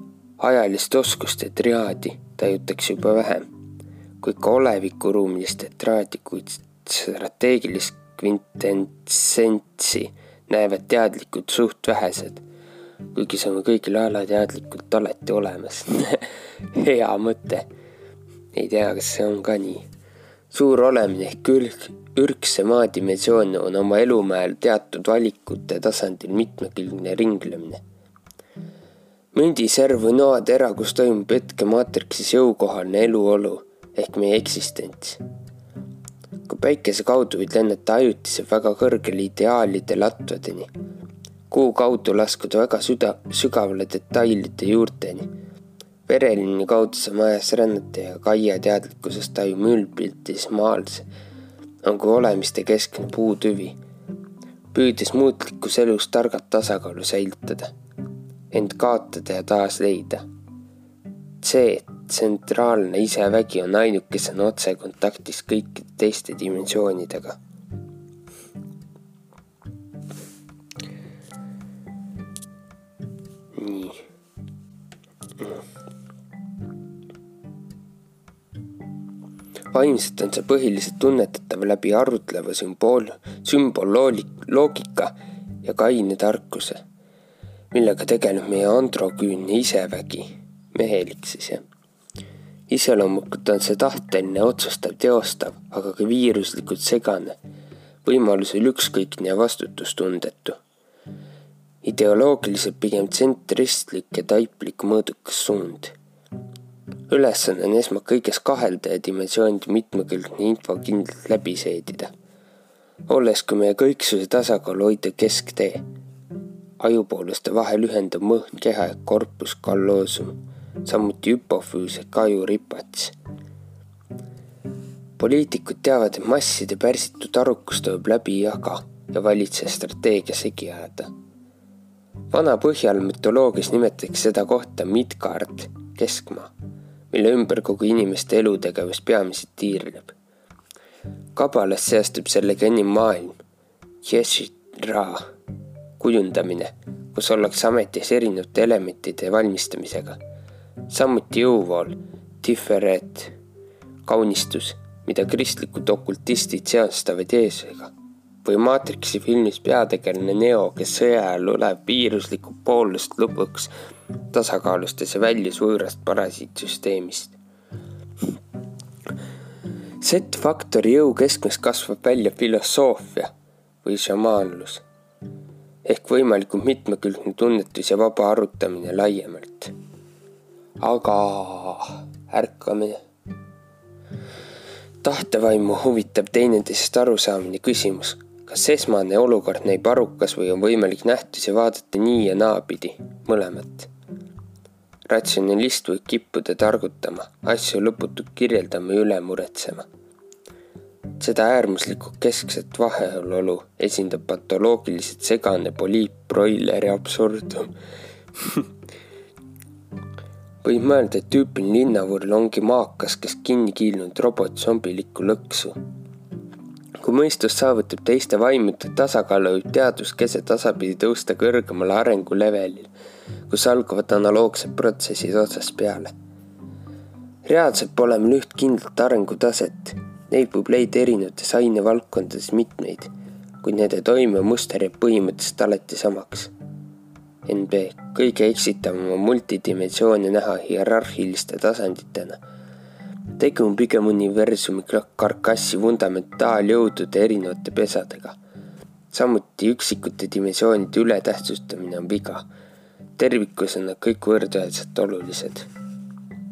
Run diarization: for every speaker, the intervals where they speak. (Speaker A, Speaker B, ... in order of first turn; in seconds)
Speaker A: 0.4-3.5, 4.2-12.4, 13.1-17.7, 18.5-19.9, 20.5-27.8, 29.3-35.2, 36.5-40.7, 41.5-45.3, 46.1-51.1, 51.8-53.8, 54.7-57.7, 58.5-60.2, 61.4-67.4, 73.5-74.0, 79.7-86.8, 87.7-91.6, 92.7-97.4, 98.0-100.6, 101.8-106.0, 107.1-112.1, 113.1-115.8, 116.8-123.2, 125.2-131.1, 132.3-136.5, 137.1-140.2, 141.4-143.4, 144.0-145.3, 146.0-150.2, 150.9-153.3, 154.1-157.9, 158.4-163.7, 164.3-167.4, 170.0-173.3, 173.8-174.8, 175.8-179.7, 180.8-183.0, 185.0-193.9, 195.1-199.9, 201.2-207.7, 208.4-208.7, 210.6-215.8, 217.0-222.9, 223.5-226.1, 227.4-233.1, 233.6-236.5, 237.5-242.4, 243.4-248.4, 249.1-252.5, 253.2-255.7